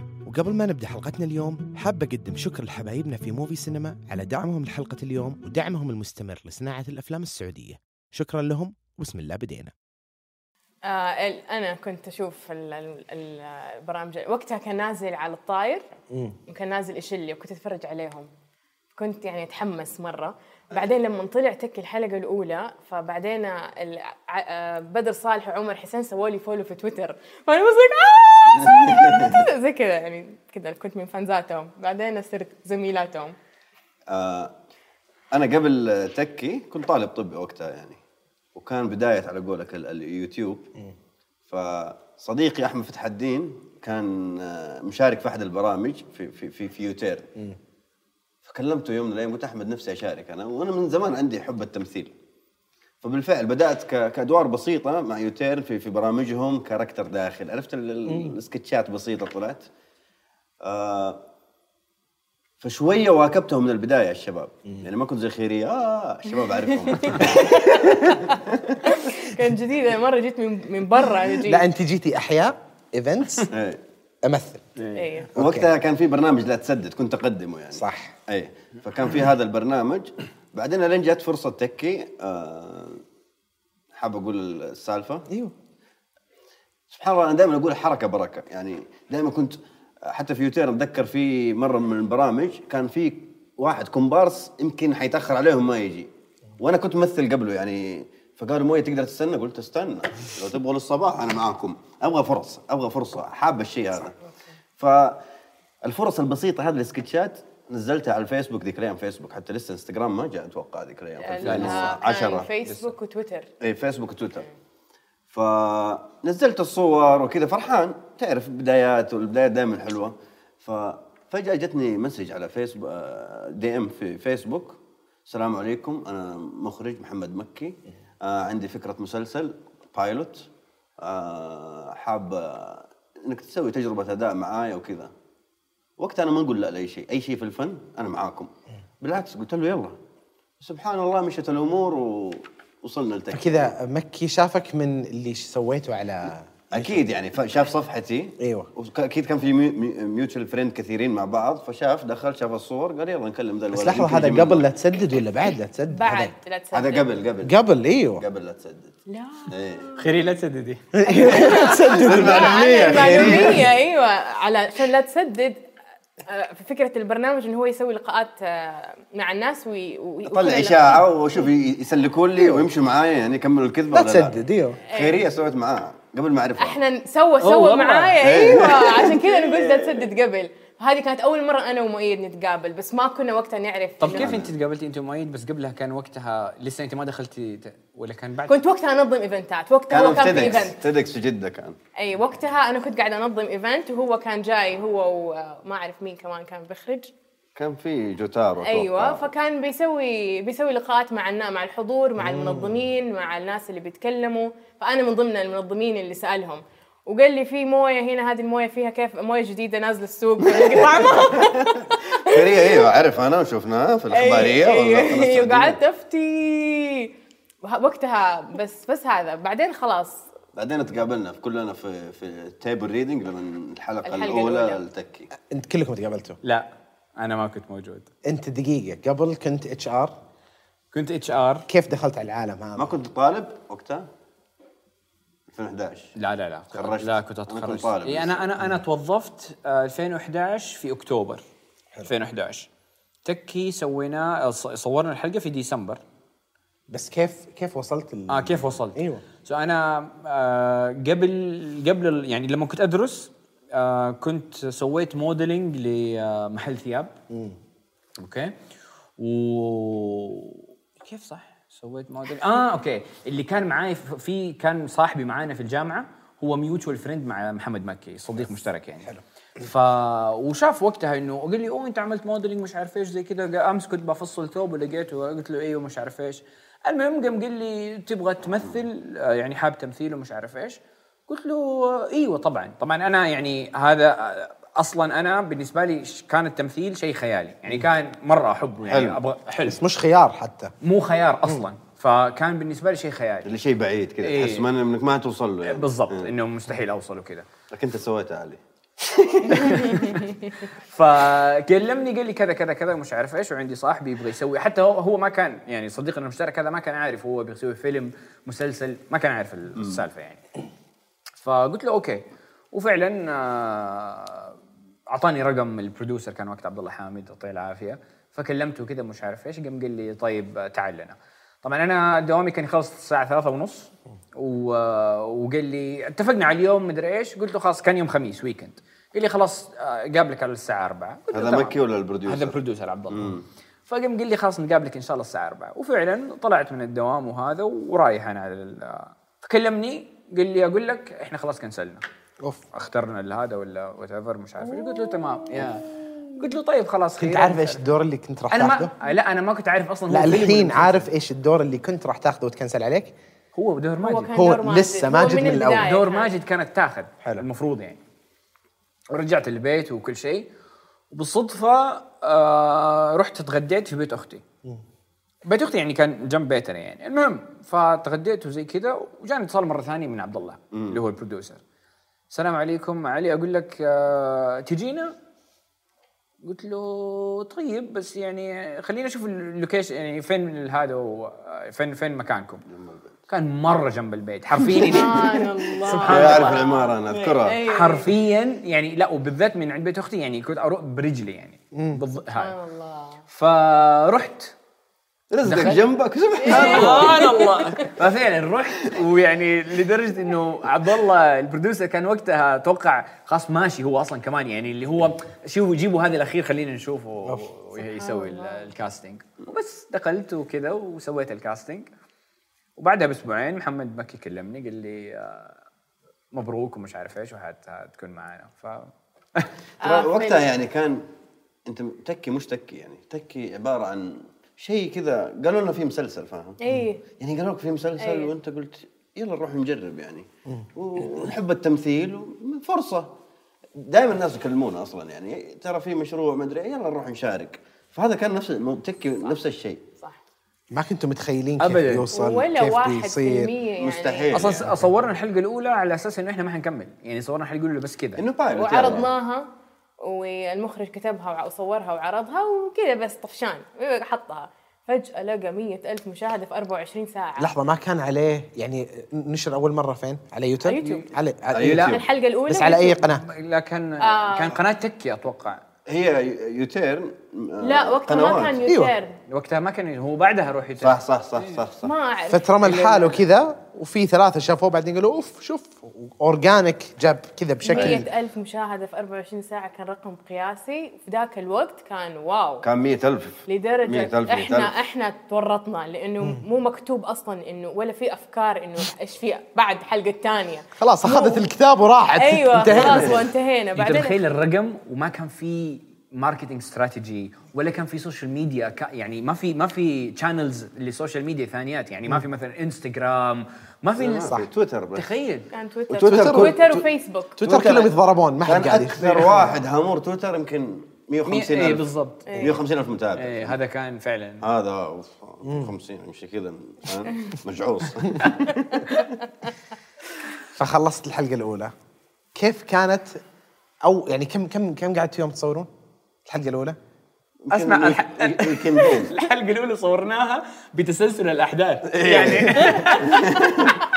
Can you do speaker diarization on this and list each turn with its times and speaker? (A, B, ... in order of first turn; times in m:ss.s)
0:00.2-0:09.7 A
0:10.8-0:15.9 B
0:16.1-0:16.4 A
0:16.4-0:18.3 B
0:18.9-0:33.3 B
0:28.6-0:29.4 C
0:34.1-0:34.5 C
0:35.3-0:38.0 C
0:38.5-0:40.7 C
0:41.5-0:47.3 C
0:48.4-0:52.1 C
0:53.0-0:59.7 C
0:58.1-0:58.3 A
1:00.6-1:01.2 C
1:02.6-1:08.8 C
1:07.0-1:11.6 B
1:11.4-1:13.5 A
1:13.5-1:13.8 C
1:14.2-1:14.6 A
1:14.8-1:23.0 C
1:14.9-1:15.3 B
1:15.3-1:15.7 A
1:17.7-1:18.1 A
1:23.9-1:25.2 C
1:26.9-1:44.2 C
1:44.8-1:45.2 C
1:45.8-1:52.5 C
1:51.2-1:53.5 B
1:51.4-1:52.0 D
1:53.6-1:54.4 C
1:55.3-2:10.5 C
2:11.0-2:15.1 C
2:16.0-2:18.5 C
2:19.0-2:20.0 C
2:20.6-2:23.7 C
2:23.3-2:27.0 A
2:26.7-2:34.6 C
2:28.4-2:28.7 A
2:33.7-2:36.3 A
2:35.9-2:37.1 B
2:36.7-2:37.5 C
2:37.4-2:38.2 A
2:38.2-2:38.9 C
2:39.1-2:40.0 B
2:39.5-2:39.8 C
2:40.0-2:40.8 D
2:40.9-2:43.6 A
2:41.1-2:45.6 B
2:41.5-2:43.6 C
2:46.2-2:51.0 B
2:50.2-2:54.3 C
2:53.9-2:54.8 A
2:54.9-2:55.2 B
2:54.9-2:56.8 C
2:56.6-3:04.3 B
2:57.4-2:58.2 D
2:58.2-3:00.1 C
3:04.0-3:08.6 D
3:04.1-3:04.5 C
3:08.5-3:10.8 B
3:09.9-3:11.8 C
3:12.0-3:17.1 B
3:17.6-3:19.2 C
3:18.6-3:32.8 B
3:22.2-3:22.8 A
3:30.5-3:31.6 C
3:32.2-3:35.8 C
3:34.1-3:37.1 B
3:37.6-3:40.2 B
3:40.5-3:45.3 C
3:44.0-3:44.8 B
3:45.4-3:46.4 A
3:46.4-3:48.1 D
3:48.2-3:50.1 A
3:50.9-3:51.6 D
3:51.7-3:52.9 A
3:52.8-3:54.1 C
3:55.5-3:56.1 C
3:56.2-4:01.4 D
3:56.7-3:58.5 C
4:02.0-4:02.7 D
4:03.2-4:06.0 D
4:06.9-4:09.2 A
4:08.3-4:17.1 D
4:17.3-4:17.6 A
4:18.2-4:18.5 D
4:19.2-4:49.8 D
4:48.9-4:49.2 C
4:49.6-4:50.7 A
4:50.8-4:53.5 D
4:53.4-4:56.3 C
4:54.2-4:54.7 D
4:55.6-4:57.5 D
4:57.7-5:00.2 C
4:59.5-5:00.2 D
5:00.9-5:10.4 D
5:11.4-5:14.6 D
5:15.1-5:42.0 D
5:31.3-5:32.6 C
5:33.1-5:33.4 C
5:42.7-5:47.8 D
5:45.0-5:45.3 B
5:47.2-5:48.9 A
5:48.5-5:51.1 D
5:50.1-5:53.1 A
5:53.5-5:54.3 D
5:54.0-5:56.3 B
5:54.3-5:55.9 A
5:55.5-5:58.0 D
5:59.1-6:00.5 D
6:01.1-6:04.4 D
6:05.4-6:11.6 D
6:10.7-6:11.0 C
6:12.3-6:15.1 D
6:16.4-6:22.6 D
6:22.7-6:23.0 C
6:23.3-6:26.7 D
6:24.7-6:28.1 B
6:24.7-6:25.1 C
6:26.0-6:27.6 C
6:27.6-6:32.5 D
6:31.7-6:32.0 A
6:32.4-6:33.2 B
6:33.3-6:34.5 D
6:35.3-6:37.2 C
6:35.4-6:35.8 D
6:36.4-6:37.9 B
6:36.5-6:51.9 D
6:47.8-6:48.6 B
6:52.8-6:55.6 D
6:56.3-6:59.5 D
6:59.8-7:00.5 B
6:59.8-7:01.0 C
7:01.6-7:06.6 C
7:06.6-7:07.0 B
7:07.2-7:13.1 C
7:08.0-7:08.3 B
7:13.8-7:19.8 C
7:20.7-7:23.5 A
7:21.6-7:22.1 D
7:22.1-7:24.6 B
7:23.8-7:24.8 C
7:24.3-7:28.2 D
7:28.2-7:29.1 C
7:28.5-7:29.5 B
7:30.0-7:37.5 B
7:37.4-7:43.2 A
7:40.6-7:41.1 B
7:41.5-7:42.0 C
7:41.8-7:43.0 B
7:43.0-7:45.6 D
7:44.0-7:44.6 B
7:45.9-7:48.6 C
7:47.6-7:49.2 B
7:48.7-7:48.9 A
7:49.3-7:51.6 D
7:50.8-7:51.9 C
7:51.8-7:53.2 B
7:52.3-7:58.0 A
7:57.6-8:02.6 B
8:02.6-8:04.7 C
8:03.4-8:11.4 B
8:10.8-8:13.2 A
8:12.2-8:14.2 B
8:12.7-8:13.2 C
8:13.8-8:25.5 D
8:24.0-8:25.0 C
8:25.5-8:27.4 B
8:25.9-8:26.9 C
8:26.1-8:26.6 A
8:27.4-8:29.6 A
8:27.4-8:27.9 C
8:28.4-8:33.6 C
8:31.2-8:32.5 D
8:32.2-8:32.6 B
8:33.2-8:34.4 D
8:34.4-8:39.0 C
8:35.4-8:35.7 A
8:38.6-8:39.1 B
8:40.6-8:41.7 A
8:42.3-8:43.2 A
8:43.8-8:45.7 A
8:46.3-8:46.8 A
8:47.4-8:49.1 C
8:47.5-8:53.7 D
8:51.9-8:53.8 C